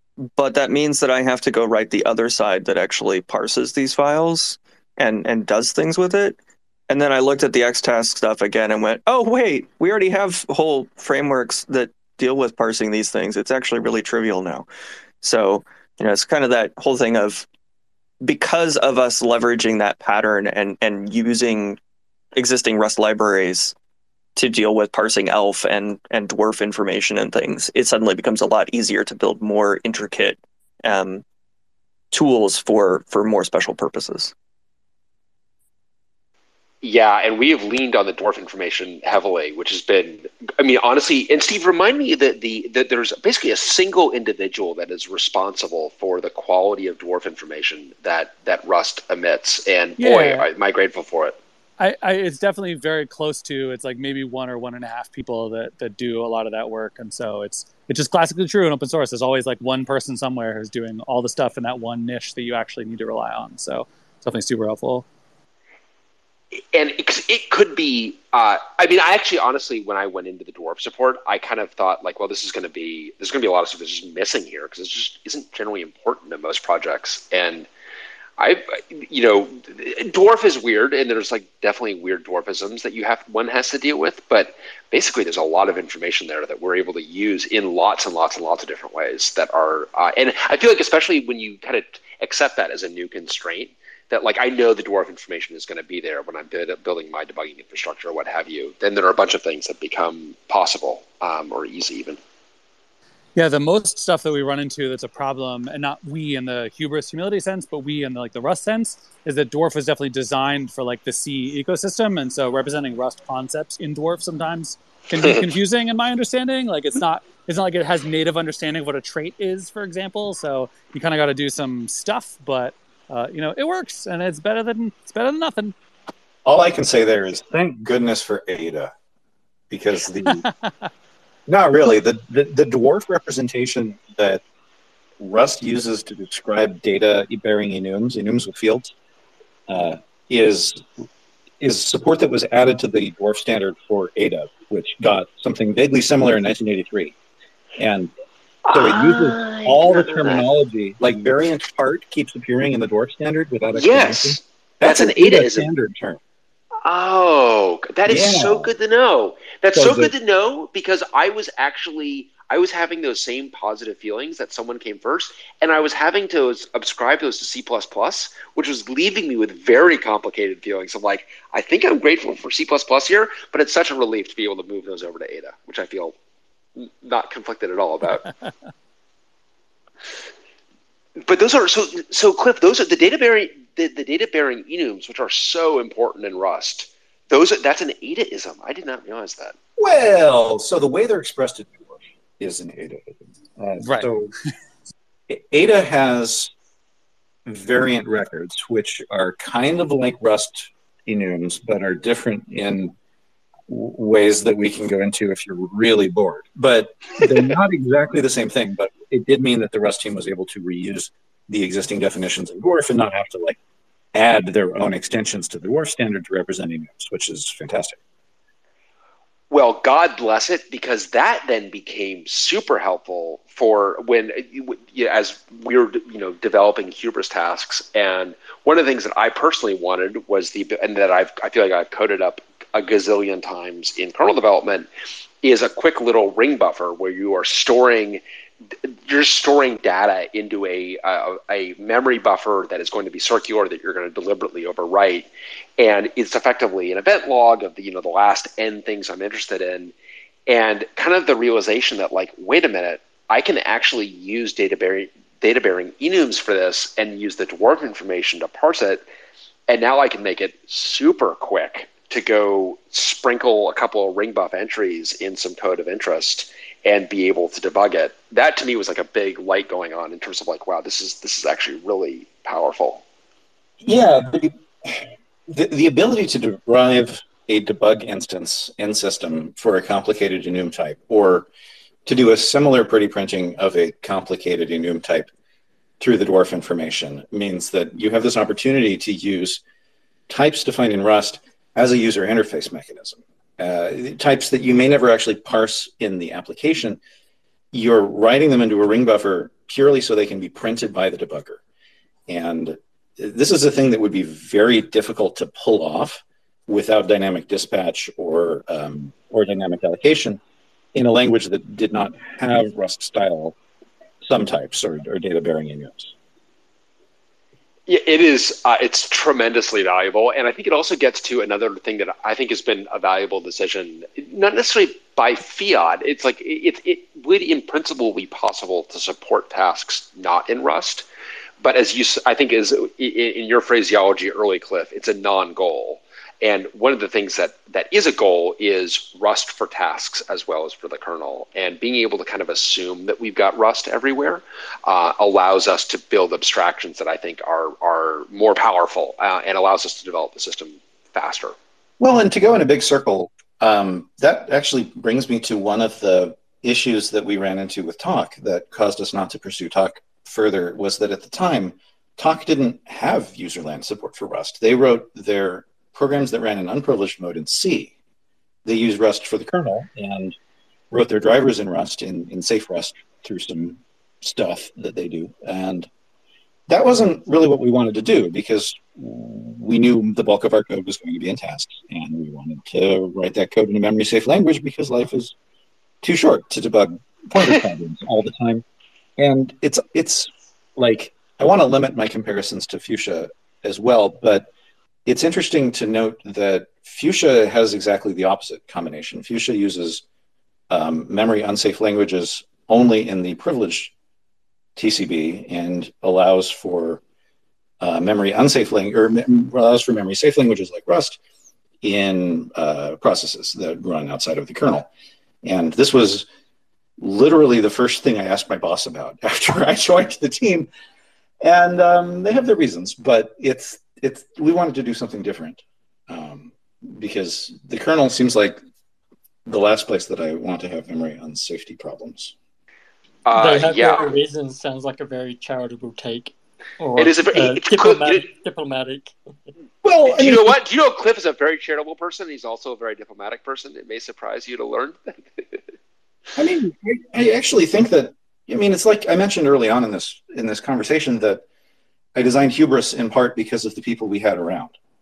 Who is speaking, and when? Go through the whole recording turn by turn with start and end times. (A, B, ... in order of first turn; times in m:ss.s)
0:00.3-0:06.4 A
0:06.9-0:14.7 A
0:15.2-0:17.4 A
0:18.2-0:21.8 A
0:22.4-0:23.7 A
0:24.4-0:31.2 A
0:32.1-0:34.3 A
0:36.8-0:51.4 B
0:50.0-0:50.4 C
0:51.8-1:05.0 C
1:06.7-1:17.7 B
1:18.4-1:42.2 B
1:43.4-2:05.7 C
2:06.4-2:08.9 D
2:09.7-2:10.5 D
2:10.2-2:10.9 C
2:11.5-2:14.4 D
2:15.2-2:18.9 D
2:19.7-2:20.9 D
2:21.6-2:27.2 D
2:27.8-2:28.1 D
2:28.6-2:30.5 B
2:28.7-2:36.2 D
2:33.8-2:35.7 B
2:36.8-2:56.1 B
2:38.0-2:38.7 D
2:39.7-2:40.1 D
2:56.8-2:58.2 B
2:58.2-2:58.5 C
3:01.2-3:09.6 B
3:09.8-3:14.3 D
3:13.8-3:14.1 C
3:15.3-3:16.5 D
3:17.4-3:22.9 D
3:23.7-3:33.6 D
3:34.1-3:38.0 D
3:39.5-3:54.9 B
3:55.4-3:58.2 B
3:58.8-4:09.9 B
4:10.5-4:19.0 B
4:19.7-4:33.0 B
4:33.8-4:41.5 D
4:42.0-4:45.3 D
4:46.0-4:49.6 D
4:50.3-4:57.0 D
4:57.7-5:01.6 D
5:02.3-5:10.4 D
5:10.9-5:13.6 D
5:14.2-5:16.1 D
5:17.9-5:31.0 B
5:31.6-5:51.6 B
5:52.0-6:07.9 D
6:08.6-6:10.3 D
6:10.9-6:15.9 D
6:16.7-6:25.3 D
6:26.0-6:28.6 D
6:29.2-6:34.5 D
6:35.0-6:40.0 D
6:40.7-6:43.9 D
6:44.8-6:47.0 D
6:47.8-6:51.2 D
6:51.8-6:54.9 D
6:55.4-6:56.2 D
6:57.0-7:00.7 D
7:01.4-7:08.6 D
7:09.4-7:12.3 D
7:13.2-7:14.1 B
7:13.3-7:19.1 E
7:17.0-7:18.3 B
7:19.8-7:20.6 D
7:20.1-7:25.6 B
7:26.4-7:31.4 D
7:32.1-7:34.7 D